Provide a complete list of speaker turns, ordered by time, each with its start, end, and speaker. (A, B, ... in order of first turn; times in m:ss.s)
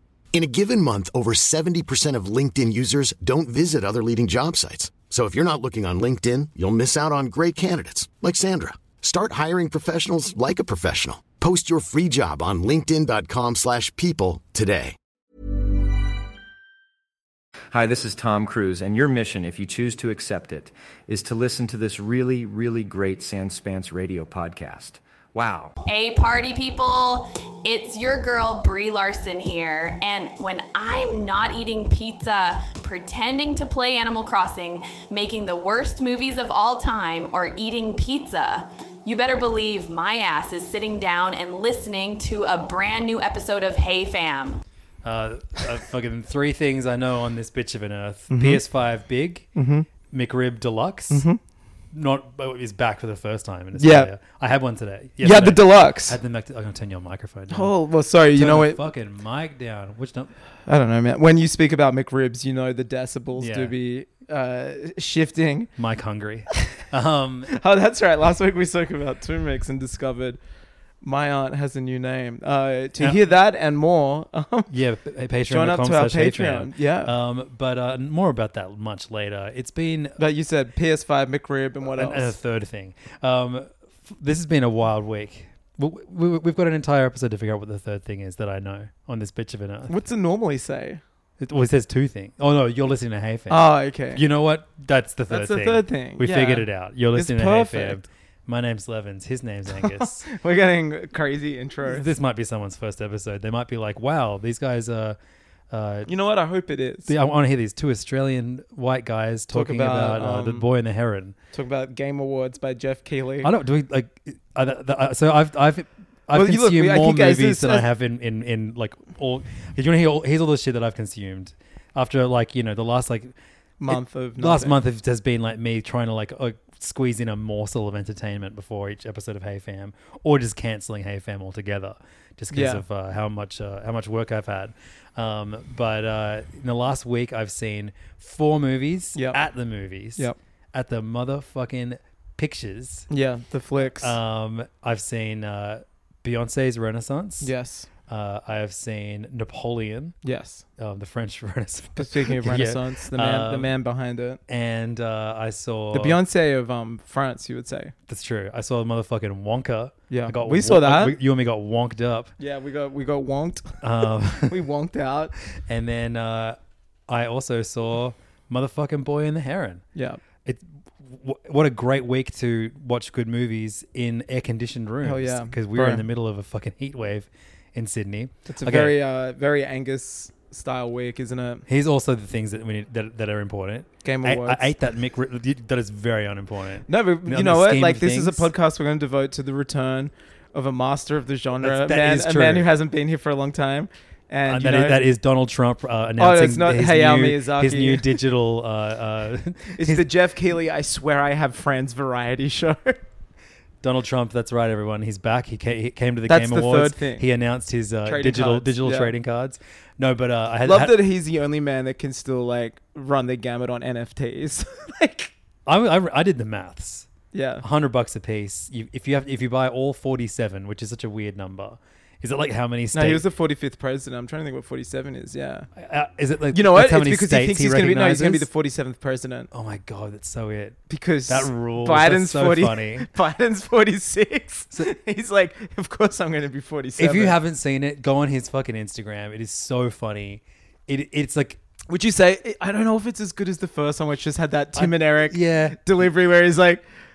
0:00.3-0:15.0 A
0:17.7-0:25.8 B
0:25.9-0:44.6 C
0:45.0-0:49.5 D
0:48.3-0:48.6 E
0:49.6-0:49.9 E
0:50.1-0:51.3 D
0:51.1-0:51.4 E
0:51.9-0:57.7 D
0:53.8-0:54.1 E
0:55.2-0:56.2 E
0:57.5-0:58.8 E
0:58.3-1:00.3 D
1:00.7-1:05.7 E
1:03.4-1:03.7 D
1:05.8-1:07.6 D
1:07.5-1:10.4 E
1:11.0-1:14.7 E
1:14.7-1:20.2 D
1:15.5-1:17.1 E
1:20.2-1:22.4 E
1:21.9-1:29.9 D
1:29.9-1:31.0 E
1:31.4-1:40.3 D
1:33.5-1:34.2 E
1:35.3-1:38.0 E
1:39.7-1:42.1 E
1:41.9-1:45.2 D
1:45.7-1:46.1 D
1:46.1-1:47.1 E
1:47.1-1:51.4 D
1:49.5-1:50.7 E
1:51.5-1:53.5 E
1:53.4-2:03.4 D
1:56.3-1:57.9 E
2:03.8-2:04.8 E
2:03.9-2:23.1 D
2:12.5-2:12.8 E
2:19.2-2:19.4 E
2:23.1-2:24.2 E
2:24.0-2:27.5 D
2:27.4-2:27.9 E
2:28.1-2:30.2 D
2:30.2-2:30.6 E
2:30.8-2:33.7 D
2:32.0-2:34.4 E
2:34.5-2:36.2 D
2:35.9-2:37.9 E
2:38.1-2:42.3 D
2:40.1-2:41.2 E
2:42.4-2:45.3 E
2:43.8-2:44.6 D
2:45.5-2:49.8 D
2:50.0-2:50.2 E
2:50.4-2:59.0 D
2:55.0-2:56.0 E
2:58.5-3:01.6 E
3:01.7-3:08.5 D
3:04.0-3:04.7 E
3:06.9-3:15.0 E
3:11.6-3:12.7 D
3:14.5-3:20.1 D
3:16.2-3:18.2 E
3:19.7-3:23.0 E
3:23.8-3:31.0 D
3:26.3-3:27.3 E
3:28.0-3:29.1 E
3:30.6-3:35.3 E
3:35.7-3:37.1 D
3:37.3-3:37.6 E
3:37.6-3:43.2 D
3:42.9-3:45.7 E
3:45.8-3:48.5 D
3:46.5-3:49.5 E
3:49.5-3:53.1 D
3:50.9-3:57.4 E
3:57.0-4:01.6 D
4:01.9-4:06.8 E
4:04.7-4:05.8 D